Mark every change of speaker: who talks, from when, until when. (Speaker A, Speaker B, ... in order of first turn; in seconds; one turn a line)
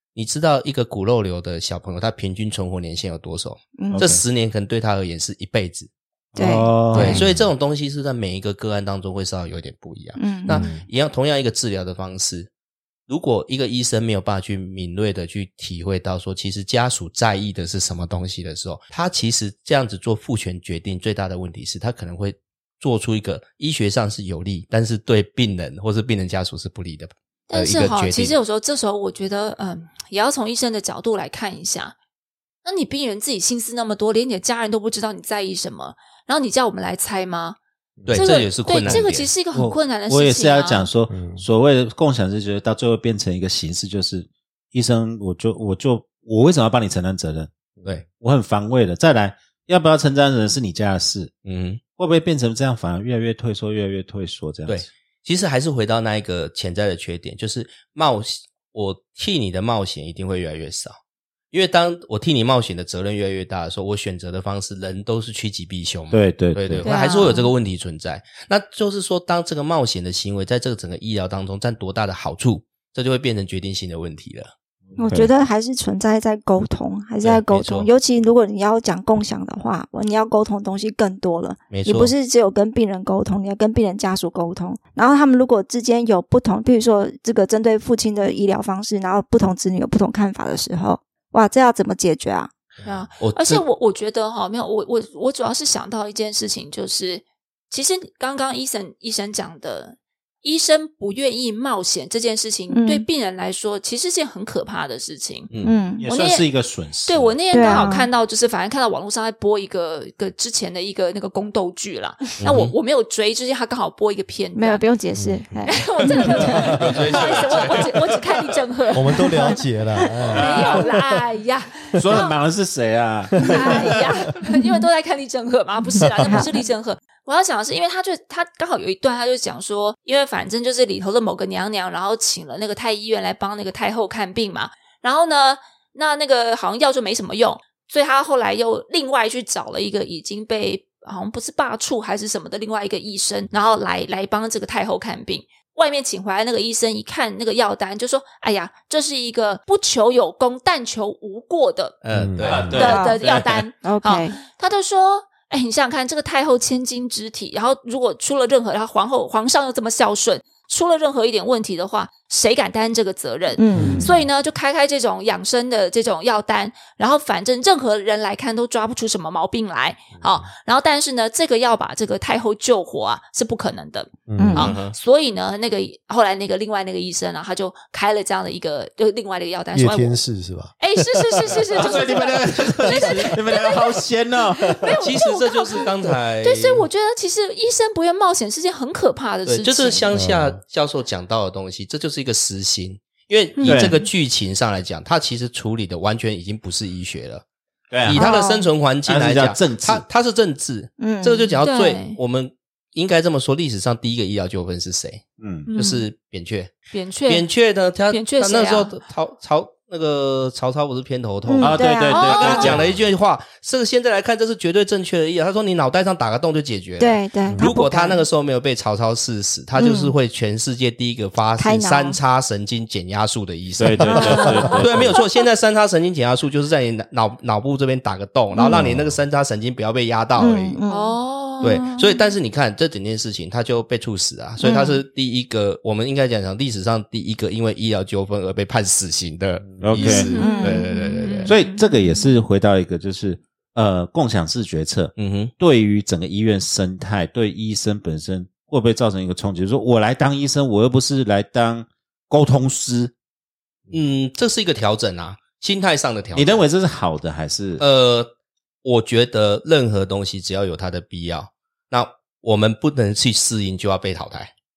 Speaker A: 0.1-5.9
Speaker B: 3.8-4.0
Speaker C: 3.9-4.2
Speaker B: 6.3-7.2
Speaker C: 6.3-7.3
Speaker A: 6.9-12.5
Speaker B: 10.2-10.6
Speaker A: 13.1-28.4
Speaker D: 27.5-31.9
Speaker D: 32.6-37.6
Speaker E: 38.0-38.3
Speaker A: 38.1-39.4
Speaker D: 38.1-40.9
Speaker C: 39.5-47.5
Speaker E: 41.1-41.4
Speaker C: 48.1-51.3
Speaker A: 51.4-51.8
Speaker C: 52.0-54.9
Speaker A: 54.7-60.9
Speaker A: 61.5-74.5
Speaker C: 66.1-66.8
Speaker D: 66.8-67.5
Speaker C: 75.0-75.3
Speaker B: 75.0-92.5
Speaker A: 77.2-77.9
Speaker A: 81.7-82.1
Speaker D: 92.8-105.5
Speaker A: 93.2-93.6
Speaker B: 102.7-103.0
Speaker A: 105.5-105.8
Speaker B: 105.6-106.0
Speaker C: 106.0-107.8
Speaker D: 106.0-106.5
Speaker D: 107.0-114.8
Speaker B: 107.5-108.1
Speaker A: 112.4-112.7
Speaker B: 114.5-116.7
Speaker E: 115.2-115.5
Speaker D: 115.7-119.6
Speaker E: 116.1-117.0
Speaker A: 116.7-117.9
Speaker C: 117.1-117.8
Speaker E: 118.9-121.0
Speaker C: 120.3-120.9
Speaker D: 120.3-122.4
Speaker C: 122.0-123.9
Speaker D: 123.4-151.9
Speaker E: 123.6-124.0
Speaker E: 126.0-126.5
Speaker B: 126.1-126.5
Speaker A: 152.0-152.9
Speaker E: 152.1-152.7
Speaker C: 152.4-153.6
Speaker D: 152.7-180.2
Speaker B: 152.8-153.2
Speaker B: 153.8-154.4
Speaker B: 163.6-164.1
Speaker E: 163.8-164.2
Speaker E: 174.3-174.6
Speaker B: 174.4-174.7
Speaker A: 174.6-174.9
Speaker E: 179.7-181.7
Speaker D: 180.8-184.0
Speaker C: 181.8-184.8
Speaker D: 184.7-185.9
Speaker A: 185.0-186.8
Speaker D: 186.4-190.1
Speaker A: 189.4-197.4
Speaker E: 190.1-190.6
Speaker B: 193.6-194.0
Speaker C: 193.6-193.9
Speaker C: 197.9-198.2
Speaker A: 198.0-206.8
Speaker B: 198.1-198.7
Speaker C: 199.0-200.0
Speaker B: 201.0-201.6
Speaker D: 201.6-202.2
Speaker C: 205.4-205.7
Speaker D: 205.7-206.0
Speaker D: 206.9-207.5
Speaker A: 207.3-230.8
Speaker D: 208.1-208.9
Speaker B: 211.5-212.8
Speaker C: 211.6-212.9
Speaker D: 212.1-212.8
Speaker B: 217.0-218.3
Speaker B: 219.8-220.1
Speaker B: 221.6-222.2
Speaker C: 223.8-225.2
Speaker E: 224.0-224.8
Speaker D: 224.1-224.4
Speaker B: 224.4-224.8
Speaker B: 228.5-228.9
Speaker E: 228.7-229.1
Speaker B: 230.4-231.2
Speaker D: 230.9-232.3
Speaker A: 231.6-241.5
Speaker B: 234.6-235.0
Speaker C: 239.8-240.3
Speaker B: 240.0-240.9
Speaker D: 240.0-242.3
Speaker C: 241.4-253.1
Speaker A: 245.2-245.5
Speaker A: 253.9-256.6
Speaker C: 256.3-257.8
Speaker A: 257.8-258.3
Speaker A: 258.8-264.5